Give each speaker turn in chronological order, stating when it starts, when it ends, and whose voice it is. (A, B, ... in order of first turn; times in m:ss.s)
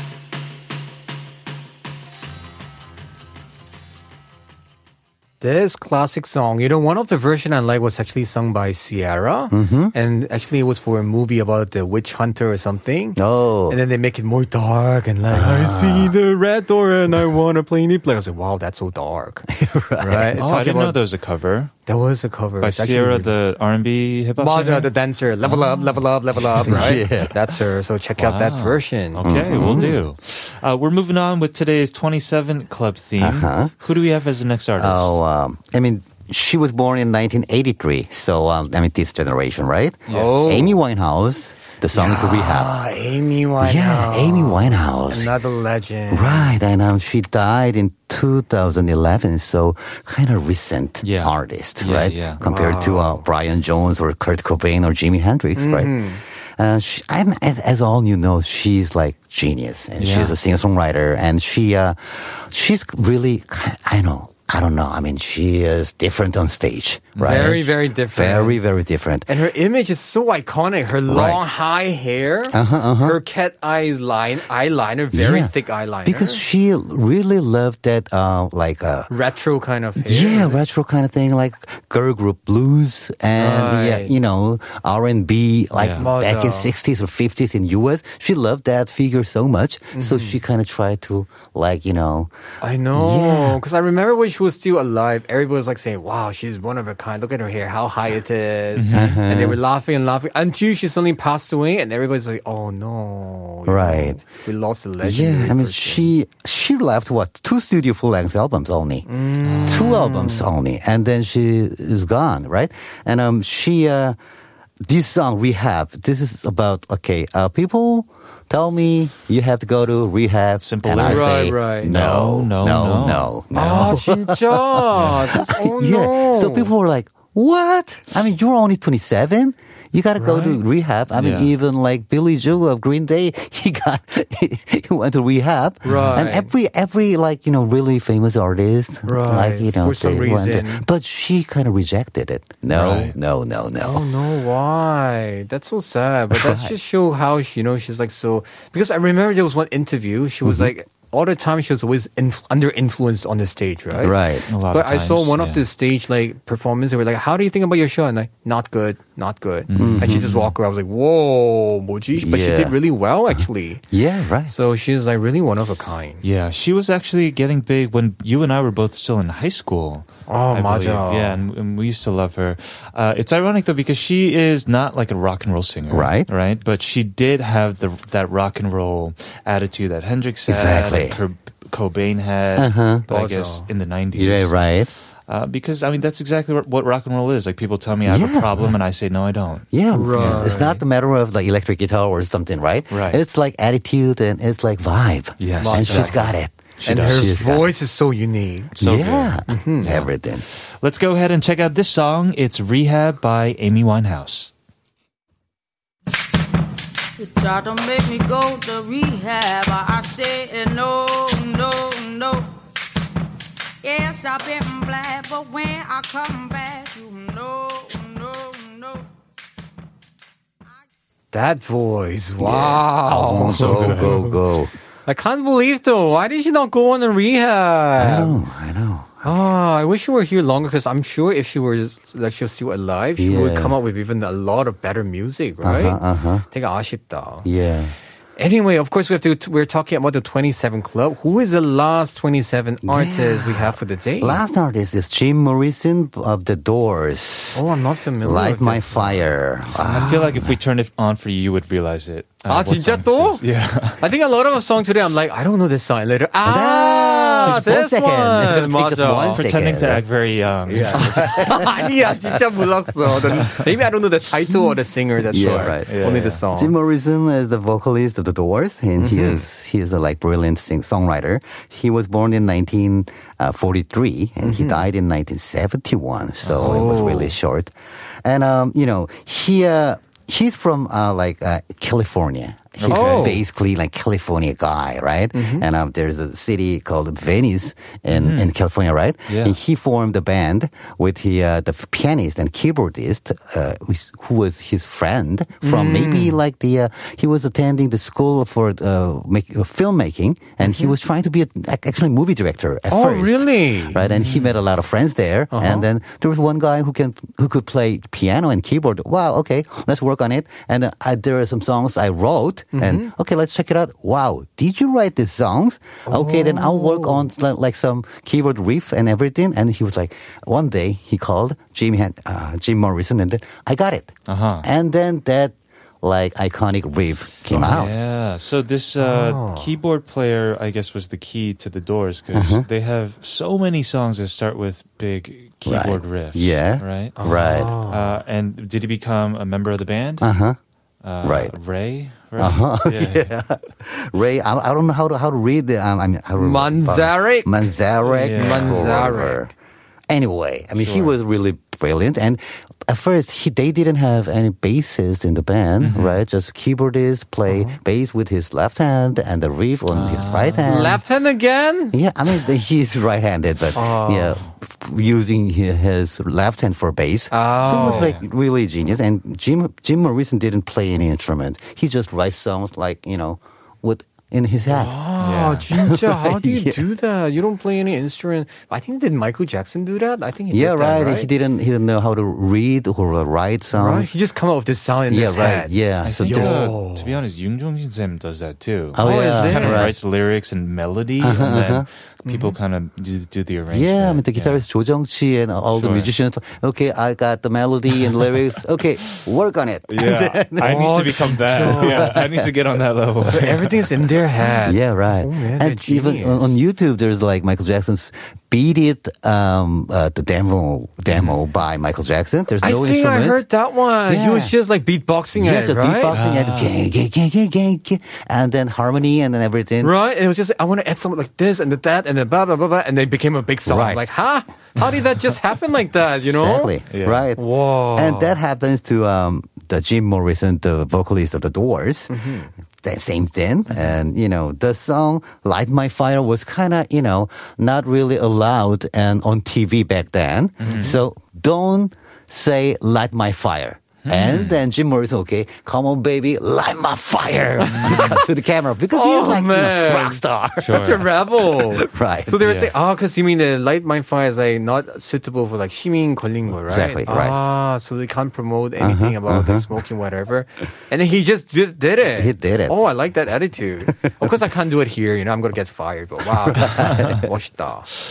0:05.4-0:19.5 A
0:09.5-0:09.9 B
0:13.2-0:13.8 B
0:15.3-0:16.1 B
0:19.5-0:20.4 B
0:20.0-0:21.0 A
0:20.4-0:21.7 C
0:21.8-0:23.3 A
0:22.6-0:24.9 C
0:24.4-0:29.9 A
0:25.4-0:26.7 C
0:26.6-0:27.4 B
0:28.2-0:35.2 C
0:29.2-0:30.0 B
0:33.2-0:33.7 B
0:34.8-0:42.8 B
0:40.1-0:40.6 C
0:40.1-0:40.8 A
0:41.9-0:46.6 A
0:43.6-0:45.3 B
0:46.1-0:56.0 B
0:51.0-0:52.4 C
0:52.4-0:53.2 A
0:55.6-0:56.2 A
0:56.6-1:09.3 B
1:00.0-1:00.3 C
1:07.2-1:07.6 C
1:07.2-1:08.6 A
1:09.3-1:16.4 A
1:11.0-1:11.4 B
1:12.5-1:13.2 B
1:15.1-1:15.5 B
1:16.0-1:19.1 B
1:19.1-1:20.6 A
1:20.0-1:32.3 B
1:23.3-1:24.1 A
1:25.7-1:26.0 C
1:26.0-1:26.7 A
1:29.9-1:30.4 A
1:32.6-1:46.1 A
1:32.9-1:33.6 B
1:38.8-1:39.2 C
1:38.9-1:39.6 B
1:43.7-1:44.2 B
1:45.0-1:49.0 B
1:49.0-1:50.5 A
1:49.4-1:49.9 C
1:49.7-1:54.2 B
1:54.8-2:04.8 B
2:00.6-2:03.3 C
2:01.0-2:01.9 A
2:03.5-2:06.7 A
2:05.3-2:24.1 B
2:10.2-2:10.6 A
2:11.1-2:11.5 C
2:15.8-2:16.5 A
2:15.9-2:16.2 C
2:19.0-2:20.8 A
2:22.7-2:23.1 C
2:23.8-2:43.8 A
2:26.3-2:26.7 B
2:30.4-2:30.7 B
2:34.0-2:34.5 B
2:34.5-2:35.6 C
2:39.7-2:40.5 C
2:39.7-2:40.3 B
2:42.2-2:42.8 B
2:43.3-2:44.5 B
2:44.5-2:46.2 A
2:46.2-3:04.7 C
2:50.3-2:51.4 A
2:55.9-2:56.3 B
3:00.5-3:01.2 B
3:02.6-3:03.0 B
3:03.1-3:03.7 A
3:04.1-3:04.9 B
3:05.3-3:10.8 C
3:08.0-3:08.7 B
3:09.7-3:17.7 B
3:09.9-3:10.8 A
3:12.9-3:13.2 C
3:15.4-3:16.3 C
3:15.6-3:16.3 A
3:16.8-3:18.7 A
3:16.8-3:17.3 C
3:18.8-3:20.4 B
3:18.8-3:20.1 C
3:19.5-3:19.9 A
3:20.8-3:24.5 C
3:27.2-3:32.5 D
3:33.8-3:39.1 D
3:41.3-3:44.3 A
3:42.4-3:44.7 B
3:43.5-3:44.2 C
3:45.1-3:48.4 A
3:48.0-3:49.3 B
3:49.2-3:57.5 A
3:53.2-3:53.8 B
3:55.6-3:56.5 B
3:57.4-3:57.9 B
3:58.4-4:04.4 A
4:02.8-4:07.6 B
4:07.5-4:09.3 A
4:08.2-4:10.6 B
4:09.8-4:14.0 C
4:09.8-4:10.3 A
4:12.5-4:13.4 A
4:14.0-4:19.4 A
4:16.4-4:20.0 B
4:17.4-4:17.7 C
4:19.2-4:21.3 C
4:20.7-4:22.3 B
4:20.8-4:26.7 A
4:25.3-4:25.9 B
4:25.4-4:26.4 C
4:26.5-5:27.9 B
4:29.0-4:29.4 A
4:34.4-4:34.8 A
4:36.4-4:37.0 C
4:36.6-4:37.3 A
4:42.8-4:43.4 C
4:42.9-4:43.4 A
4:45.3-4:45.6 A
4:48.1-4:48.5 C
4:49.3-4:49.5 C
4:55.6-4:56.4 A
5:00.6-5:00.9 A
5:02.9-5:04.0 A
5:04.1-5:04.5 C
5:05.5-5:05.9 A
5:12.7-5:13.1 A
5:16.0-5:17.3 A
5:24.3-5:24.7 C
5:27.5-5:37.2 C
5:29.0-5:29.8 A
5:32.3-5:32.6 B
5:35.6-5:37.7 B
5:37.2-5:38.2 A
5:37.8-5:40.3 C
5:40.2-5:40.6 B
5:41.0-5:43.3 C
5:41.2-5:41.5 B
5:42.4-5:49.5 B
5:46.4-5:47.5 A
5:48.0-5:49.5 A
5:48.2-5:48.9 C
5:50.1-6:01.0 B
5:50.8-5:51.1 C
5:55.8-5:56.2 C
5:57.5-5:57.8 A
5:59.9-6:00.9 C
6:00.6-6:02.0 A
6:01.9-6:14.9 B
6:03.7-6:04.4 A
6:07.3-6:08.1 A
6:07.6-6:08.2 C
6:14.6-6:21.3 A
6:15.2-6:15.7 C
6:15.7-6:16.8 B
6:20.5-6:24.1 B
6:23.7-6:27.2 A
6:25.1-6:26.7 B
6:26.0-6:34.6 C
6:28.9-6:30.0 B
6:29.0-6:29.9 A
6:31.2-6:31.9 B
6:32.2-6:32.6 A
6:33.7-6:42.5 B
6:35.7-6:36.1 C
6:38.0-6:38.4 C
6:39.9-6:44.1 C
6:40.6-6:42.2 A
6:43.2-6:46.6 A
6:44.6-6:53.4 B
6:51.1-6:51.4 C
6:52.6-6:56.2 A
6:54.1-6:54.5 B
6:55.4-6:59.9 B
6:56.1-6:56.7 C
6:59.8-7:06.8 A
7:03.6-7:04.0 B
7:06.3-7:12.1 B
7:06.9-7:07.2 C
7:07.4-7:08.4 A
7:12.1-7:12.5 A
7:12.8-7:32.4 B
7:13.7-7:13.9 C
7:20.6-7:20.9 C
7:20.6-7:21.0 A
7:24.0-7:24.6 C
7:27.7-7:28.2 A
7:27.7-7:28.2 C
7:28.9-7:47.9 A
7:30.6-7:31.0 C
7:32.4-7:32.7 C
7:36.7-7:37.4 B
7:38.8-7:39.6 B
7:42.1-7:42.8 B
7:44.0-7:44.3 B
7:46.4-7:47.2 B